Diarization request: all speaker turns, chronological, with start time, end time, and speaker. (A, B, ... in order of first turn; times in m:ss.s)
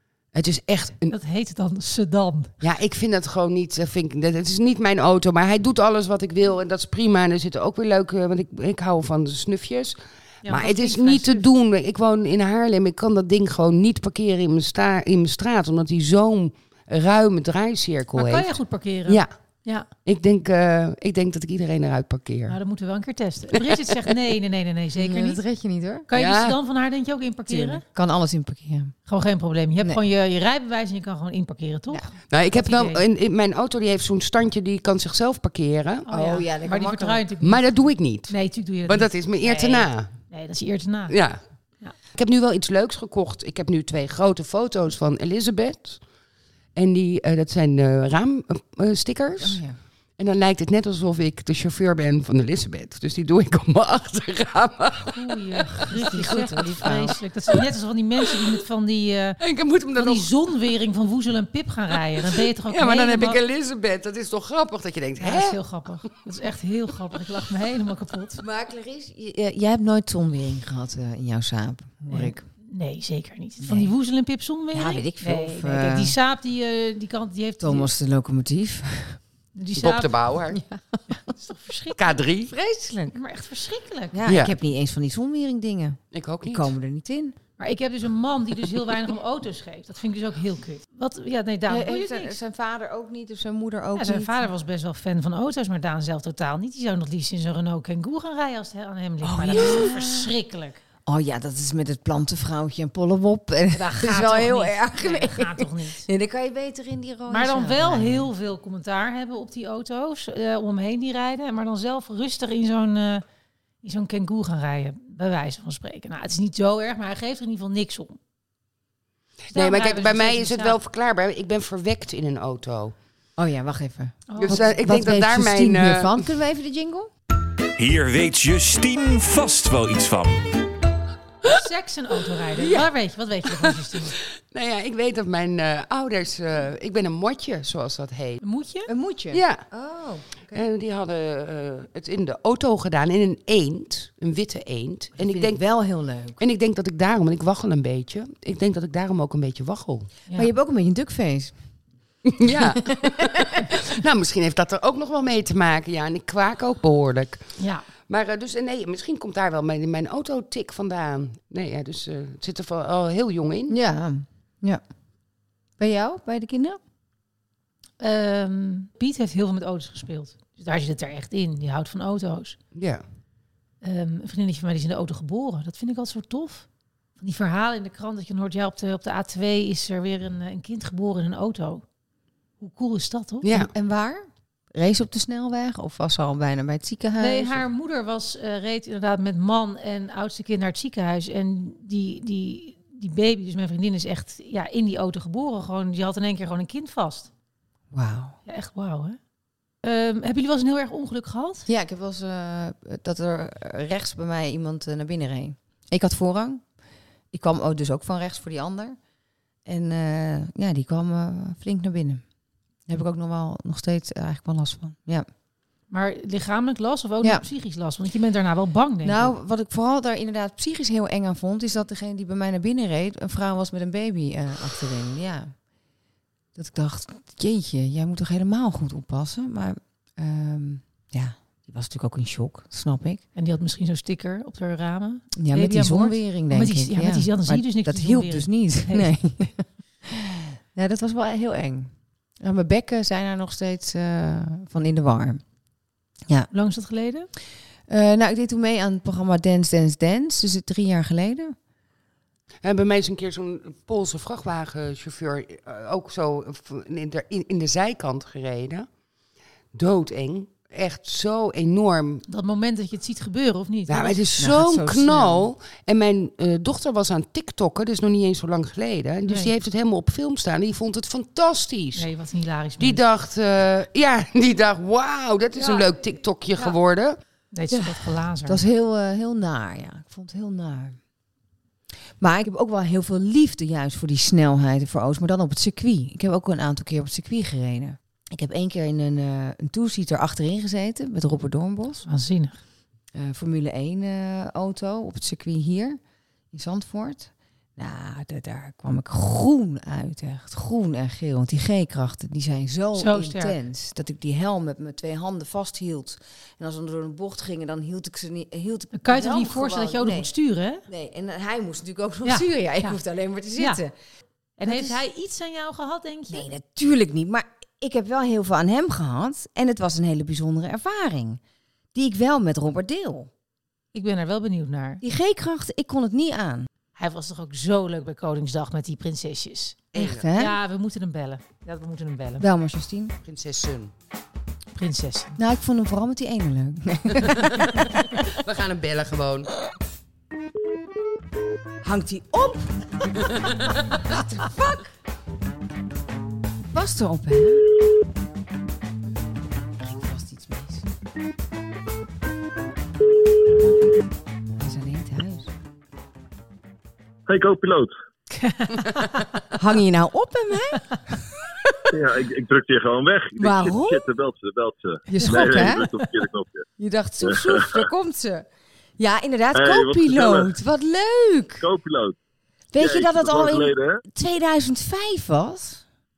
0:00.3-0:01.2 A
0:01.1-0:02.5 B
0:02.6-0:18.5 A
0:10.4-0:11.5 B
0:18.2-0:19.9 B
0:20.0-0:22.6 A
0:22.5-0:25.4 B
0:23.5-0:24.1 A
0:25.0-0:26.1 C
0:26.1-0:27.8 B
0:26.1-0:26.6 A
0:27.5-0:29.0 C
0:29.1-0:33.0 B
0:32.3-0:36.1 A
0:36.1-0:37.6 B
0:36.1-0:37.2 C
0:37.4-0:40.1 A
0:38.3-0:41.2 B
0:41.1-0:41.4 A
0:42.1-0:46.0 A
0:46.8-0:49.6 A
0:49.4-0:49.8 C
0:50.2-0:55.9 A
0:55.0-0:59.4 B
0:55.9-0:57.2 C
0:59.4-1:00.3 A
0:59.9-1:03.4 B
1:02.7-1:05.6 A
1:05.2-1:08.4 B
1:08.4-1:12.4 C
1:12.1-1:17.9 B
1:13.6-1:13.9 C
1:14.7-1:16.2 C
1:17.6-1:19.2 C
1:19.6-1:20.1 B
1:19.8-1:20.6 A
1:20.5-1:21.3 C
1:21.3-1:22.2 B
1:22.0-1:22.5 A
1:22.5-1:23.2 C
1:23.1-1:24.2 B
1:24.1-1:27.4 C
1:24.3-1:24.5 A
1:26.1-1:26.7 A
1:27.6-1:32.4 B
1:31.7-1:34.4 C
1:34.0-1:40.8 B
1:39.2-1:40.3 C
1:41.1-1:48.3 C
1:43.7-1:46.1 B
1:47.3-1:53.2 B
1:53.8-1:58.2 B
1:59.5-2:00.8 B
1:59.5-2:03.0 A
2:03.4-2:07.1 C
2:04.3-2:04.7 B
2:04.4-2:06.1 A
2:07.8-2:10.4 D
2:11.5-2:14.2 B
2:12.5-2:12.9 A
2:13.5-2:18.4 A
2:18.4-2:18.9 B
2:18.9-2:20.6 C
2:19.3-2:19.6 A
2:20.5-2:25.6 A
2:25.2-2:26.4 C
2:26.4-2:30.1 A
2:30.3-2:31.6 C
2:32.2-2:37.6 A
2:32.6-2:33.7 C
2:37.6-2:37.9 B
2:38.1-2:43.8 A
2:43.7-2:44.8 C
2:45.8-2:46.8 C
2:48.0-2:52.6 B
2:52.7-2:53.0 A
2:53.8-2:56.7 B
2:57.2-3:01.8 B
3:02.6-3:03.7 B
3:03.4-3:03.7 A
3:03.5-3:07.6 C
3:07.2-3:17.3 B
3:17.9-3:18.4 C
3:18.5-3:19.2 B
3:19.8-3:21.7 B
3:21.7-3:26.6 C
3:27.3-3:29.0 C
3:29.6-3:32.2 C
3:32.9-3:35.3 C
3:35.9-3:39.3 B
3:39.0-3:45.6 C
3:46.6-3:53.2 C
3:53.4-3:59.2 B
3:55.4-4:05.4 C
4:06.5-4:07.3 B
4:07.9-4:11.6 C
4:12.6-4:18.9 A
4:19.7-4:22.2 A
4:22.3-4:24.2 B
4:23.9-4:32.1 A
4:24.4-4:25.5 C
4:32.0-4:33.0 B
4:32.8-4:37.2 A
4:35.6-4:35.9 B
4:37.5-4:38.6 B
4:37.7-4:41.0 C
4:42.2-4:52.0 C
4:52.0-4:52.6 B
4:53.1-4:56.0 C
4:56.5-5:10.3 C
5:03.0-5:03.6 B
5:08.9-5:10.9 B
5:10.9-5:13.9 C
5:12.2-5:13.0 B
5:13.6-5:13.8 B
5:14.6-5:16.5 B
5:14.6-5:15.0 C
5:16.3-5:21.4 C
5:21.9-5:23.3 C
5:23.9-5:25.0 B
5:25.0-5:26.7 C
5:27.0-5:32.4 B
5:29.9-5:30.3 A
5:29.9-5:30.6 C
5:32.4-5:33.2 C
5:33.2-5:33.9 A
5:34.8-5:35.4 B
5:35.4-5:37.9 C
5:37.2-5:39.5 A
5:41.8-5:44.9 C
5:43.2-5:44.0 A
5:46.7-5:47.7 C
5:49.8-5:50.9 C
5:54.6-5:55.5 C
5:57.3-5:57.9 E
5:58.3-5:59.3 B
5:59.6-6:00.9 C
6:01.9-6:06.7 E
6:03.4-6:04.1 C
6:05.1-6:05.9 C
6:06.8-6:08.5 C
6:07.3-6:07.8 E
6:09.0-6:11.6 C
6:09.5-6:10.5 E
6:11.6-6:12.2 E
6:12.7-6:15.8 C
6:12.8-6:14.0 E